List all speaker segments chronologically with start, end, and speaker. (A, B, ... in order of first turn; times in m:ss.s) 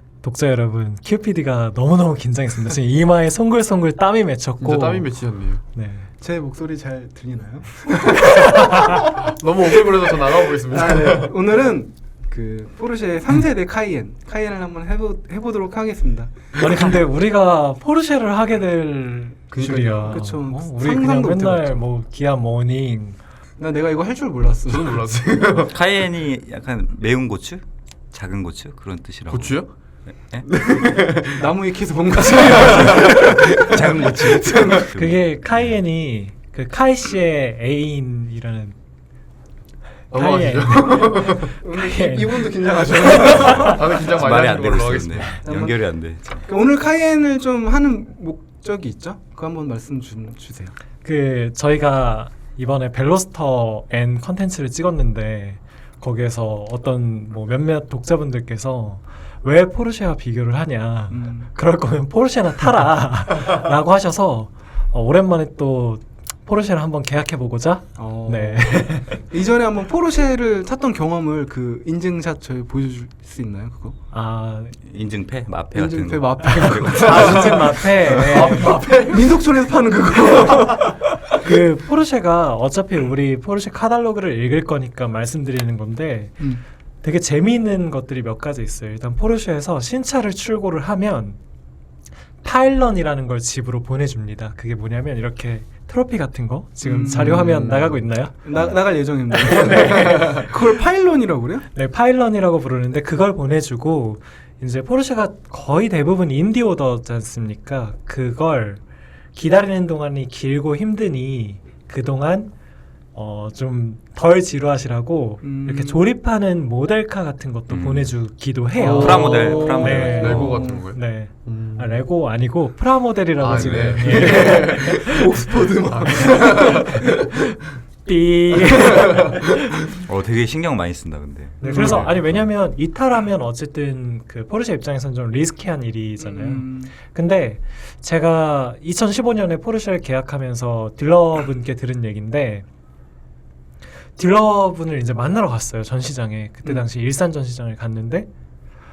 0:00.2-0:06.1 A
0:04.6-0:05.6 B
0:06.2-0:09.0 C
0:08.8-0:11.4 B
0:10.6-0:17.0 C
0:16.6-0:23.2 A
0:19.5-0:20.3 B
0:20.1-0:21.8 C
0:23.6-0:25.3 C
0:24.7-0:25.8 B
0:25.7-0:29.6 D
0:29.3-0:29.7 B
0:30.2-0:30.5 D
0:30.5-0:31.5 B
0:31.3-0:34.9 C
0:32.6-0:35.8 D
0:34.8-0:38.8 A
0:40.1-0:41.6 B
0:40.1-0:43.7 A
0:41.0-0:43.9 C
0:43.2-0:45.4 B
0:43.3-0:46.5 D
0:45.4-0:45.8 C
0:46.4-0:50.7 C
0:51.0-1:09.2 A
1:01.1-1:01.5 C
1:08.0-1:14.0 C
1:14.1-1:14.8 A
1:14.8-1:17.7 D
1:15.7-1:17.5 C
1:16.6-1:18.8 A
1:17.2-1:19.5 B
1:18.2-1:21.0 C
1:21.3-1:26.5 A
1:27.0-1:31.4 A
1:32.4-1:38.8 A
1:36.8-1:37.7 C
1:37.1-1:38.1 B
1:38.4-1:41.7 C
1:39.3-1:40.6 A
1:41.7-1:48.8 A
1:49.3-1:52.5 A
1:53.1-2:05.5 A
1:55.4-1:56.0 C
1:57.7-1:58.2 D
1:58.8-2:00.8 C
1:58.9-2:02.0 B
1:58.9-2:00.4 D
2:03.4-2:05.1 B
2:03.6-2:07.0 C
2:05.9-2:06.9 B
2:06.2-2:09.9 A
2:10.0-2:12.5 D
2:11.6-2:22.7 A
2:11.6-2:12.2 B
2:16.2-2:16.9 C
2:24.2-2:28.3 A